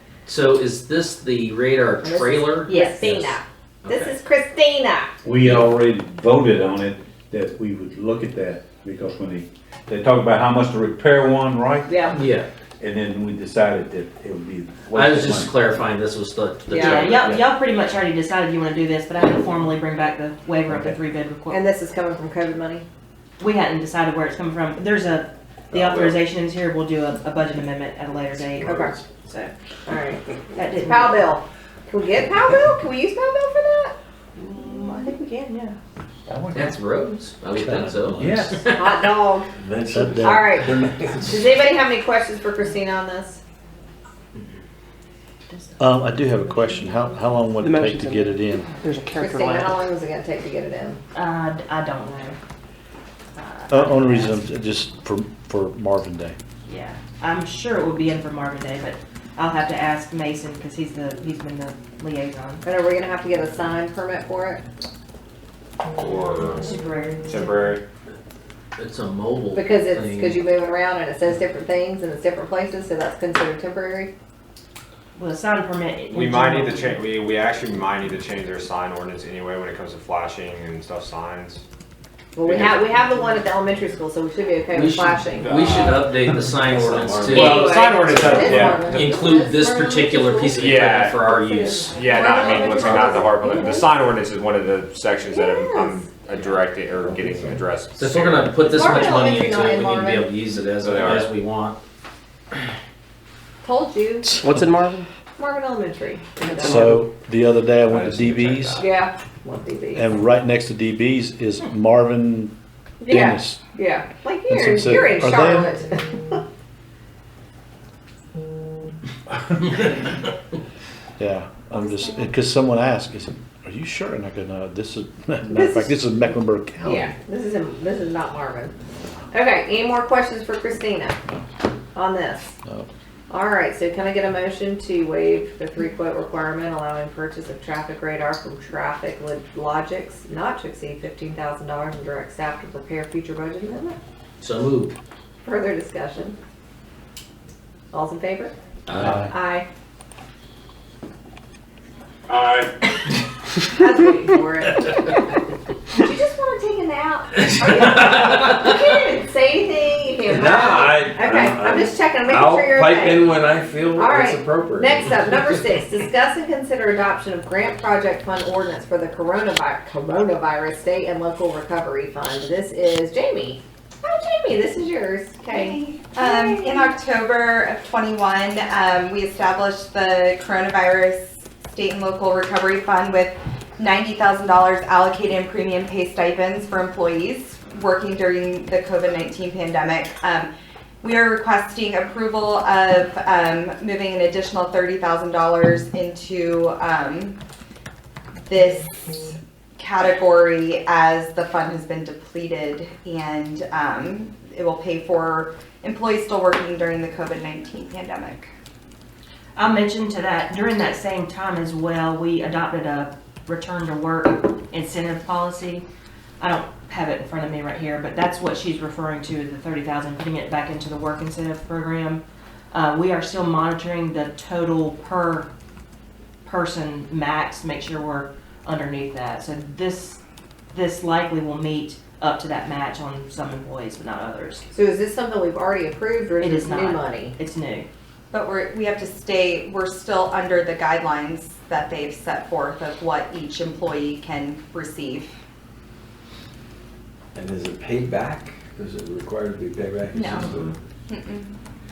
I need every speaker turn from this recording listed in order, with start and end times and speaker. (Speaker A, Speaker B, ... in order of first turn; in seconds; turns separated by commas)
Speaker A: 0.3-4.1, Speaker B: 2.0-5.1, Speaker C: 5.2-11.9, Speaker B: 11.9-12.2, Speaker A: 12.1-12.5, Speaker C: 12.8-15.5, Speaker A: 14.9-17.3, Speaker D: 16.7-21.6, Speaker B: 16.7-17.1, Speaker B: 21.5-22.9, Speaker D: 23.4-29.5, Speaker E: 25.7-26.2, Speaker E: 28.6-29.0, Speaker B: 28.6-29.0, Speaker B: 29.9-34.0, Speaker D: 30.6-31.3, Speaker D: 34.4-35.8, Speaker B: 34.6-35.2, Speaker C: 36.3-36.8, Speaker A: 36.5-38.7, Speaker C: 38.2-38.7, Speaker B: 38.7-39.5, Speaker E: 39.6-41.5, Speaker F: 39.9-40.6, Speaker B: 40.2-43.4, Speaker F: 45.8-48.7, Speaker G: 47.6-48.3, Speaker G: 48.8-49.7, Speaker H: 48.9-49.6, Speaker B: 49.2-51.0, Speaker D: 51.1-52.4, Speaker D: 53.4-54.4, Speaker F: 53.7-56.4, Speaker D: 56.7-62.6, Speaker B: 62.6-64.6, Speaker H: 66.0-66.7, Speaker D: 66.6-67.5, Speaker H: 67.2-67.8, Speaker A: 68.8-70.4, Speaker B: 69.5-74.1, Speaker D: 75.2-77.0, Speaker H: 76.1-81.6, Speaker B: 82.3-85.7, Speaker A: 84.7-92.0, Speaker E: 86.5-87.6, Speaker H: 87.3-89.5, Speaker B: 87.3-93.9, Speaker H: 90.6-91.2, Speaker H: 91.9-98.5, Speaker B: 95.3-96.0, Speaker A: 98.0-101.8, Speaker B: 98.6-100.3, Speaker H: 100.8-101.3, Speaker B: 103.6-104.4, Speaker F: 104.3-104.8, Speaker G: 104.4-105.0, Speaker B: 105.4-106.9, Speaker G: 106.5-106.9, Speaker F: 106.6-108.9, Speaker H: 107.9-108.8, Speaker B: 108.8-110.2, Speaker F: 110.0-112.5, Speaker B: 113.0-116.4, Speaker F: 113.1-113.6, Speaker F: 114.5-115.8, Speaker F: 121.2-127.1, Speaker B: 125.5-126.0, Speaker B: 126.8-128.7, Speaker B: 129.3-131.2, Speaker B: 131.9-132.5, Speaker F: 132.7-132.9, Speaker B: 133.3-144.0, Speaker A: 144.4-144.9, Speaker B: 145.4-146.4, Speaker B: 147.9-148.5, Speaker A: 148.9-149.2, Speaker F: 149.0-149.3, Speaker B: 149.1-149.7, Speaker B: 153.7-155.1, Speaker B: 155.9-163.4, Speaker E: 160.3-165.2, Speaker B: 163.9-176.9, Speaker I: 175.5-190.5, Speaker I: 191.0-197.4, Speaker I: 198.5-208.5, Speaker D: 209.6-215.8, Speaker D: 216.4-225.5, Speaker D: 226.4-230.2, Speaker D: 230.7-234.7, Speaker B: 234.7-237.3, Speaker D: 236.4-237.9, Speaker I: 238.3-245.3, Speaker E: 247.3-250.8, Speaker I: 250.1-251.6